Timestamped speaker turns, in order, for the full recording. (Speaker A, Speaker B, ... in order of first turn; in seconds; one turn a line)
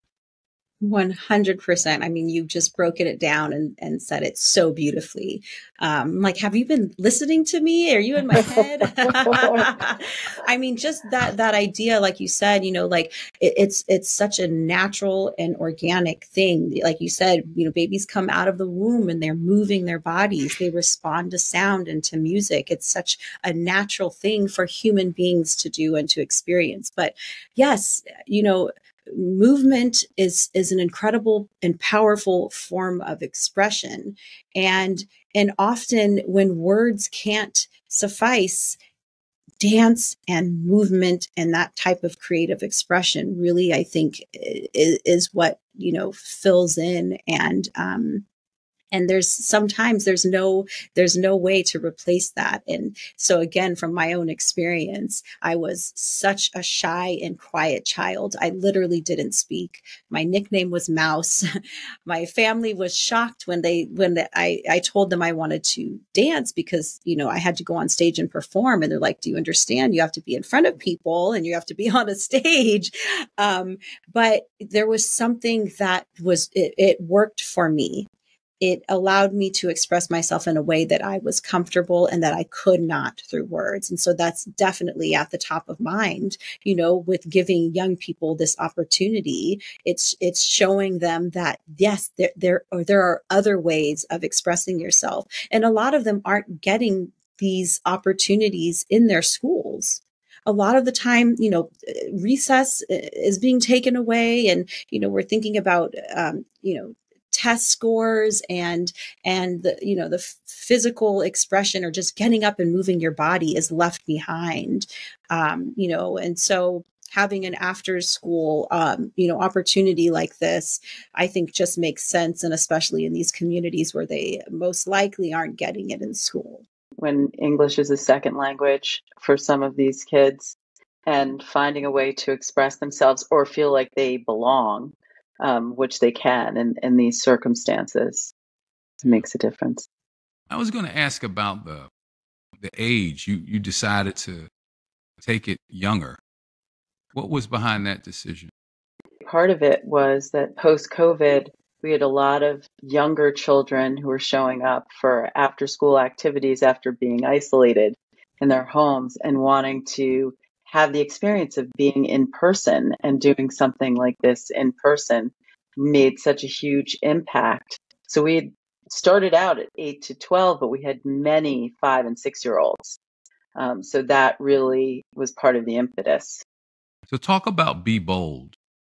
Speaker A: 0.8-38.8
Speaker B: 8.4-9.8
Speaker A: 39.6-48.2
Speaker A: 48.9-61.5
Speaker A: 62.1-78.1
Speaker A: 78.6-126.6
Speaker B: 127.0-138.3
Speaker B: 139.0-139.9
Speaker C: 140.5-141.9
Speaker C: 142.6-144.5
Speaker C: 145.2-146.2
Speaker C: 147.1-148.5
Speaker B: 149.2-173.0
Speaker B: 173.6-176.4
Speaker C: 177.1-178.6